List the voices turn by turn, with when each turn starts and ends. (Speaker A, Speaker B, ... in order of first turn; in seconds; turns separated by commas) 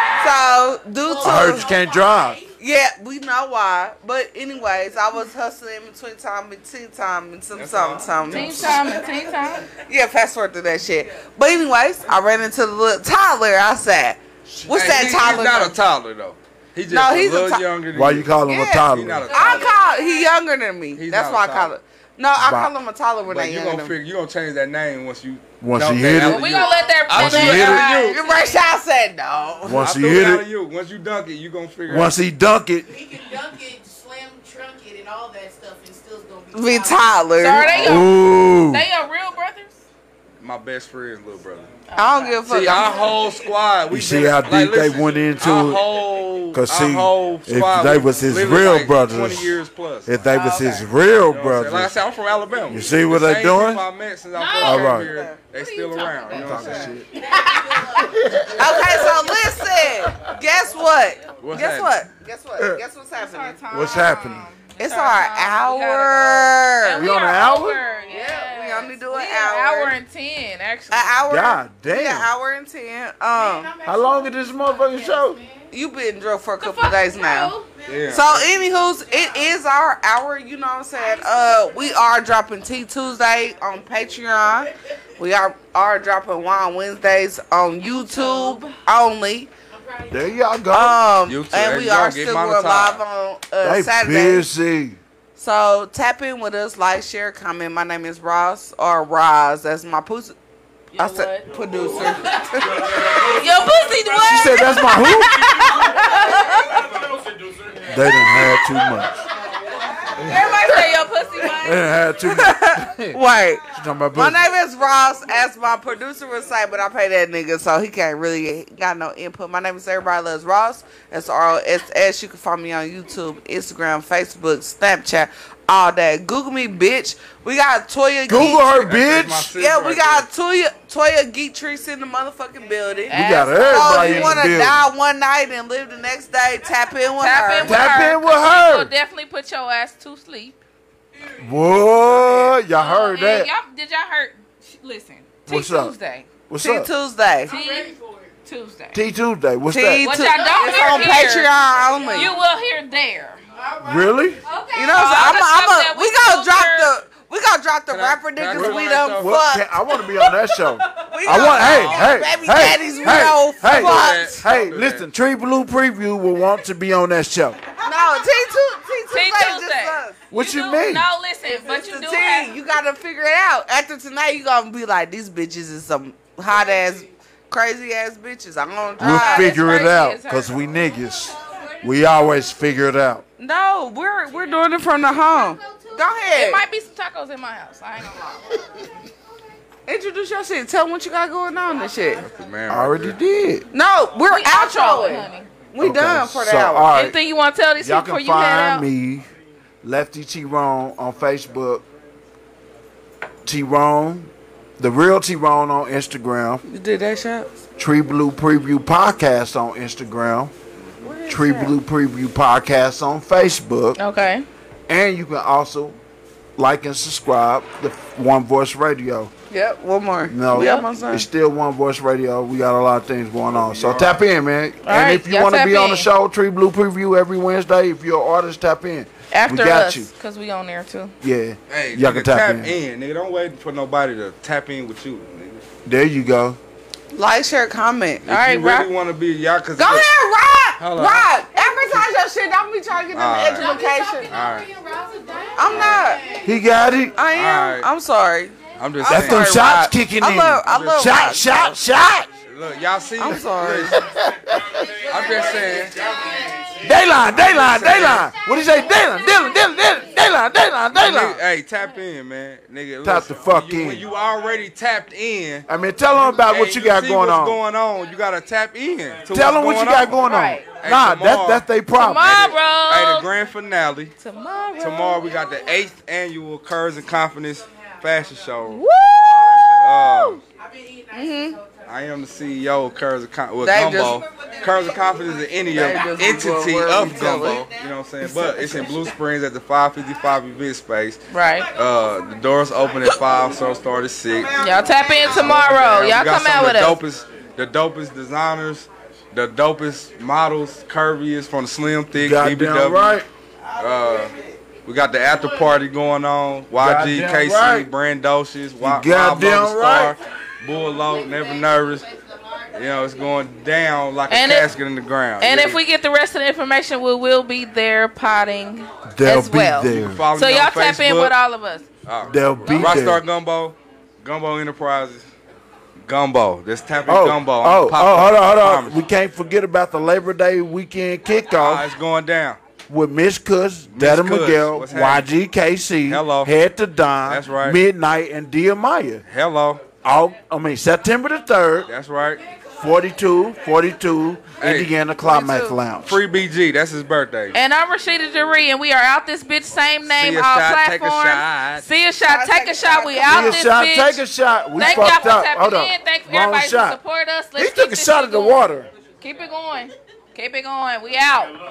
Speaker A: 0.2-1.7, Speaker B: 1.1-2.5, Speaker C: 1.2-2.4, Speaker A: 2.6-8.9, Speaker D: 7.5-8.9, Speaker E: 8.3-9.7, Speaker B: 8.9-9.3, Speaker A: 9.8-15.8, Speaker D: 14.7-18.3, Speaker A: 16.9-17.7, Speaker C: 17.9-19.3, Speaker A: 18.5-23.9, Speaker D: 18.9-19.7, Speaker E: 19.3-20.4, Speaker D: 21.0-21.7, Speaker C: 22.4-22.7, Speaker D: 23.2-28.2, Speaker C: 25.6-26.5, Speaker E: 26.3-28.6, Speaker B: 26.6-27.4, Speaker C: 27.1-27.9, Speaker A: 28.1-29.9, Speaker C: 29.6-30.5, Speaker D: 29.7-32.2, Speaker C: 31.9-32.9, Speaker B: 32.8-37.3, Speaker A: 36.5-38.1, Speaker E: 37.4-39.8, Speaker C: 37.8-38.9, Speaker D: 40.4-41.7, Speaker E: 41.9-42.4, Speaker A: 42.0-43.0, Speaker D: 42.5-50.2, Speaker B: 42.8-43.5, Speaker C: 43.9-45.9, Speaker C: 46.5-49.5, Speaker C: 50.1-51.9, Speaker E: 50.3-50.9, Speaker D: 51.3-57.0, Speaker C: 52.7-53.9, Speaker E: 54.4-55.0, Speaker C: 54.6-55.1, Speaker E: 55.5-57.4, Speaker C: 56.3-57.1, Speaker B: 57.1-59.9, Speaker C: 58.1-58.7, Speaker A: 58.6-63.9, Speaker D: 61.4-62.0, Speaker E: 63.2-71.2, Speaker C: 63.7-64.5, Speaker A: 64.8-67.1, Speaker C: 67.0-67.8, Speaker A: 68.1-70.0, Speaker A: 70.9-73.7, Speaker C: 71.3-72.3, Speaker B: 73.3-75.7, Speaker C: 73.8-75.4, Speaker A: 75.7-77.5, Speaker E: 76.6-77.7, Speaker D: 77.9-78.4, Speaker A: 78.1-89.5, Speaker B: 78.8-79.5, Speaker B: 81.0-82.2, Speaker E: 87.8-88.7, Speaker B: 89.7-90.5, Speaker C: 90.1-91.0, Speaker A: 90.7-94.5, Speaker D: 91.3-93.0, Speaker C: 93.6-95.0, Speaker A: 95.4-100.4, Speaker E: 100.9-102.1, Speaker A: 101.0-103.4, Speaker E: 103.1-106.4, Speaker C: 104.2-105.7, Speaker A: 105.3-106.6, Speaker C: 107.9-109.3, Speaker E: 110.2-111.9, Speaker C: 110.2-110.5, Speaker C: 111.6-113.2, Speaker A: 112.3-128.8, Speaker C: 113.7-114.5, Speaker C: 128.3-129.5, Speaker D: 128.3-130.3, Speaker A: 129.6-133.2, Speaker E: 133.1-134.4, Speaker C: 133.1-134.9, Speaker A: 133.7-138.0, Speaker E: 137.2-140.6, Speaker C: 137.6-138.9, Speaker C: 141.4-143.5, Speaker E: 142.1-146.3, Speaker C: 145.5-145.9, Speaker C: 146.5-146.9, Speaker A: 146.6-147.5, Speaker B: 147.4-148.3, Speaker E: 147.5-147.9, Speaker E: 148.4-149.0, Speaker C: 148.9-150.2, Speaker A: 149.7-152.3, Speaker E: 150.0-153.4, Speaker B: 150.3-152.4, Speaker B: 153.5-155.3, Speaker C: 153.8-154.4, Speaker E: 154.5-156.9, Speaker A: 154.8-159.8, Speaker D: 157.9-159.4, Speaker C: 158.5-167.6, Speaker A: 161.1-164.4, Speaker B: 161.3-161.8, Speaker B: 162.6-163.2, Speaker D: 163.7-165.0, Speaker A: 167.8-170.2, Speaker E: 169.1-172.5, Speaker C: 170.3-171.1, Speaker A: 171.6-179.8, Speaker B: 176.5-177.1, Speaker E: 179.0-180.6, Speaker C: 179.0-183.2, Speaker B: 181.1-181.9, Speaker A: 183.4-186.6, Speaker B: 184.3-184.7, Speaker B: 185.3-186.2, Speaker E: 186.3-188.5, Speaker A: 189.9-192.2, Speaker D: 192.2-193.2, Speaker C: 192.7-193.7, Speaker A: 193.7-196.9, Speaker E: 194.3-195.5, Speaker C: 195.8-197.2, Speaker E: 196.9-198.9, Speaker C: 197.8-199.3, Speaker C: 199.8-201.8, Speaker C: 203.4-206.6, Speaker A: 206.7-207.5, Speaker C: 207.8-210.5, Speaker A: 211.0-211.8, Speaker C: 211.3-214.0, Speaker E: 214.0-214.5, Speaker C: 214.9-216.0, Speaker C: 216.6-219.3, Speaker A: 219.5-221.3, Speaker C: 220.2-230.1, Speaker E: 220.5-220.9, Speaker D: 223.6-224.2, Speaker E: 224.8-226.1, Speaker E: 229.3-231.1, Speaker C: 231.2-232.8, Speaker D: 231.7-235.6, Speaker C: 235.9-236.6, Speaker A: 237.1-238.2, Speaker D: 238.2-240.1, Speaker E: 238.3-238.9, Speaker A: 239.8-244.3, Speaker D: 240.8-241.3, Speaker B: 241.5-242.0, Speaker D: 243.1-243.8, Speaker B: 243.4-247.2, Speaker D: 244.3-244.7, Speaker A: 245.5-246.3, Speaker C: 246.4-247.2, Speaker A: 247.2-251.8, Speaker D: 247.3-247.9, Speaker D: 248.8-249.7, Speaker C: 249.1-252.3, Speaker D: 250.7-251.3, Speaker D: 252.5-254.0, Speaker A: 253.2-254.1, Speaker C: 253.9-254.9, Speaker B: 254.9-257.1, Speaker D: 255.1-256.0, Speaker C: 256.8-261.4, Speaker D: 257.2-258.3, Speaker B: 258.3-260.2, Speaker D: 260.9-265.7, Speaker C: 263.0-264.1, Speaker C: 265.7-267.6, Speaker D: 266.2-270.2, Speaker C: 269.3-272.5, Speaker E: 270.2-270.6, Speaker D: 270.8-271.7, Speaker E: 272.0-273.3, Speaker D: 272.2-274.1, Speaker A: 274.2-275.2, Speaker D: 274.8-278.9, Speaker B: 274.8-276.0, Speaker B: 277.6-278.5, Speaker A: 278.7-280.4, Speaker B: 279.2-282.9, Speaker D: 279.8-280.4, Speaker A: 281.1-281.6, Speaker D: 281.9-291.2, Speaker A: 283.6-284.2, Speaker B: 284.1-288.0, Speaker A: 285.7-287.6, Speaker A: 288.2-289.0, Speaker B: 288.6-289.1, Speaker E: 291.3-291.7, Speaker D: 291.7-294.5, Speaker B: 294.5-295.3, Speaker E: 294.6-297.0, Speaker D: 295.3-303.2, Speaker C: 302.1-303.3, Speaker D: 303.8-304.3, Speaker D: 304.9-312.1, Speaker C: 306.8-307.9, Speaker C: 308.8-310.2, Speaker B: 310.8-313.3, Speaker D: 312.7-315.8, Speaker E: 314.3-314.7, Speaker E: 315.4-321.9, Speaker C: 319.1-320.2, Speaker D: 319.9-321.3, Speaker D: 322.1-325.3, Speaker C: 322.3-323.2, Speaker E: 322.6-323.0, Speaker D: 326.1-329.0, Speaker C: 327.1-331.9, Speaker D: 331.6-332.6, Speaker C: 332.9-339.2, Speaker D: 333.9-335.3, Speaker D: 336.1-336.5, Speaker D: 337.3-337.8, Speaker D: 339.3-339.8, Speaker C: 340.0-341.9, Speaker D: 341.9-342.4, Speaker B: 342.5-342.8, Speaker C: 342.8-346.2, Speaker D: 344.6-344.9, Speaker A: 345.2-345.7, Speaker D: 346.0-347.6, Speaker E: 347.5-354.2, Speaker D: 350.1-351.9, Speaker A: 352.2-353.6, Speaker C: 353.2-357.0, Speaker E: 354.8-358.7, Speaker C: 357.6-358.9, Speaker E: 359.2-361.6